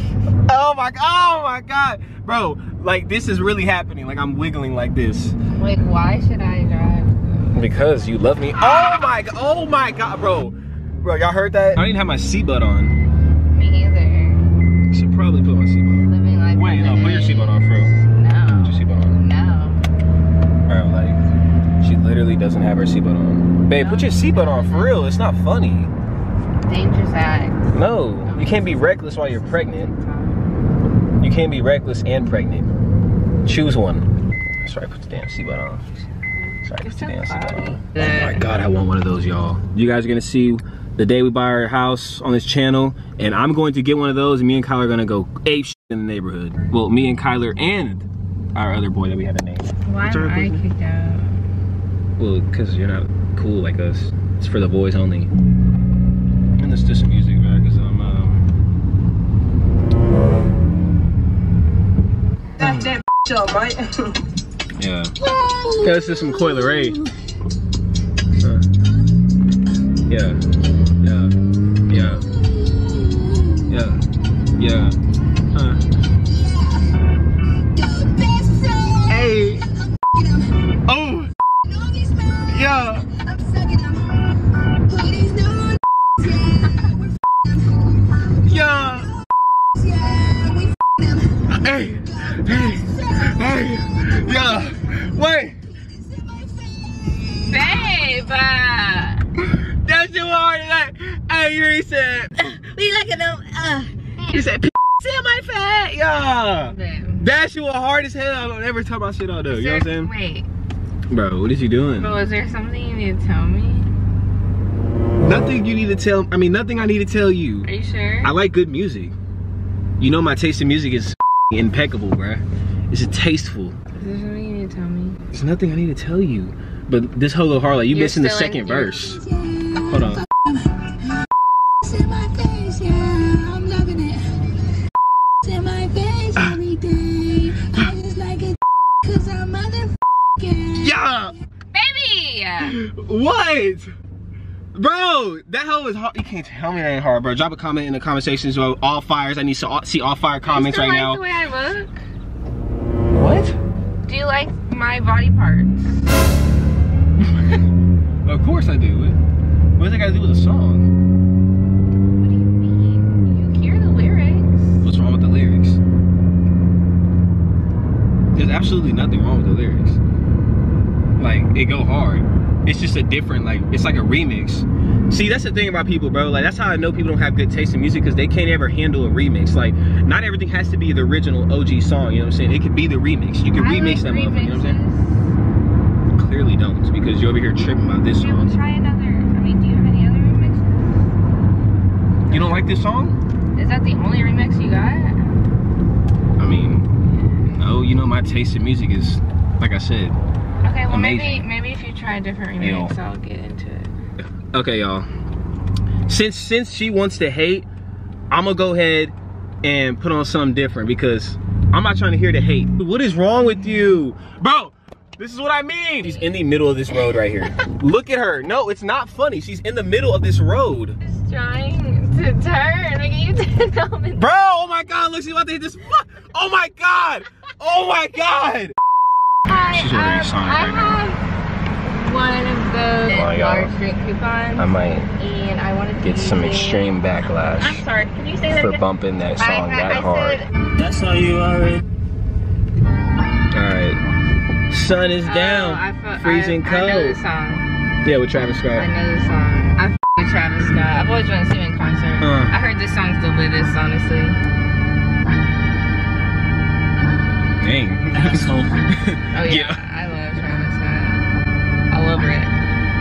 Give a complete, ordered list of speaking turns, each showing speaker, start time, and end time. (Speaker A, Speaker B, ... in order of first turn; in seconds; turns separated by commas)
Speaker A: 0.3-5.3, Speaker B: 5.5-8.0, Speaker A: 7.5-12.9, Speaker B: 13.5-14.4, Speaker A: 14.9-17.9, Speaker B: 16.0-19.8, Speaker A: 18.5-19.2, Speaker A: 20.7-21.2, Speaker A: 21.8-25.9, Speaker B: 23.7-25.1, Speaker B: 26.6-27.7, Speaker A: 27.7-29.9, Speaker B: 28.2-30.4, Speaker A: 31.2-32.7, Speaker A: 33.4-35.8, Speaker A: 36.6-50.6, Speaker B: 36.8-37.8, Speaker B: 49.8-51.4, Speaker A: 52.2-55.3, Speaker A: 56.5-58.5, Speaker A: 62.6-63.0, Speaker C: 63.1-63.4, Speaker A: 64.8-65.1, Speaker C: 65.4-65.7, Speaker A: 65.8-67.0, Speaker A: 68.4-68.6, Speaker A: 70.1-70.4, Speaker A: 71.0-71.3, Speaker A: 71.9-72.3, Speaker A: 73.7-74.0, Speaker A: 74.6-75.0, Speaker A: 75.5-75.8, Speaker D: 77.8-79.0, Speaker A: 79.0-79.7, Speaker A: 80.8-81.3, Speaker D: 81.8-82.4, Speaker A: 82.3-83.1, Speaker D: 83.3-84.2, Speaker D: 84.9-87.1, Speaker A: 88.4-89.1, Speaker D: 89.8-91.1, Speaker A: 91.4-95.6, Speaker B: 97.5-99.2, Speaker A: 99.4-102.5, Speaker B: 102.5-104.3, Speaker A: 104.3-110.1, Speaker B: 106.6-107.2, Speaker B: 109.5-110.5, Speaker A: 111.1-112.1, Speaker B: 112.0-113.9, Speaker A: 115.2-117.7, Speaker B: 117.6-118.3, Speaker A: 118.2-119.1, Speaker A: 120.0-123.8, Speaker B: 124.0-125.2, Speaker A: 125.3-130.2, Speaker B: 127.9-129.1, Speaker D: 129.4-129.7, Speaker D: 131.9-134.4, Speaker D: 135.4-140.7, Speaker A: 136.3-136.6, Speaker A: 140.7-141.3, Speaker B: 141.7-142.7, Speaker A: 142.6-143.9, Speaker A: 144.7-151.2, Speaker B: 150.4-152.0, Speaker A: 153.1-153.6, Speaker B: 154.1-156.1, Speaker A: 157.2-157.6, Speaker A: 158.2-159.2, Speaker A: 159.8-160.9, Speaker B: 162.2-164.8, Speaker A: 164.8-165.8, Speaker A: 168.3-170.0, Speaker A: 171.2-184.8, Speaker B: 183.5-185.2, Speaker A: 186.1-188.6, Speaker B: 188.1-191.1, Speaker B: 192.3-192.7, Speaker A: 192.3-193.2, Speaker B: 193.6-195.3, Speaker A: 196.4-196.9, Speaker A: 197.5-200.2, Speaker B: 200.6-203.9, Speaker A: 200.9-201.4, Speaker A: 202.6-202.9, Speaker A: 204.5-205.1, Speaker A: 206.1-207.7, Speaker A: 208.3-221.0, Speaker B: 216.9-217.5, Speaker B: 221.0-224.3, Speaker A: 224.2-228.7, Speaker B: 229.5-231.2, Speaker A: 229.7-231.0, Speaker B: 231.8-238.8, Speaker A: 233.1-233.7, Speaker A: 234.6-235.1, Speaker A: 236.0-237.8, Speaker A: 238.4-240.4, Speaker B: 239.4-240.5, Speaker C: 240.8-241.8, Speaker A: 243.5-244.0, Speaker A: 244.7-247.2, Speaker B: 245.2-247.7, Speaker A: 248.0-248.9, Speaker B: 248.8-254.4, Speaker A: 252.2-252.5, Speaker A: 257.6-259.8, Speaker C: 258.1-258.7, Speaker B: 259.3-261.2, Speaker B: 261.9-262.5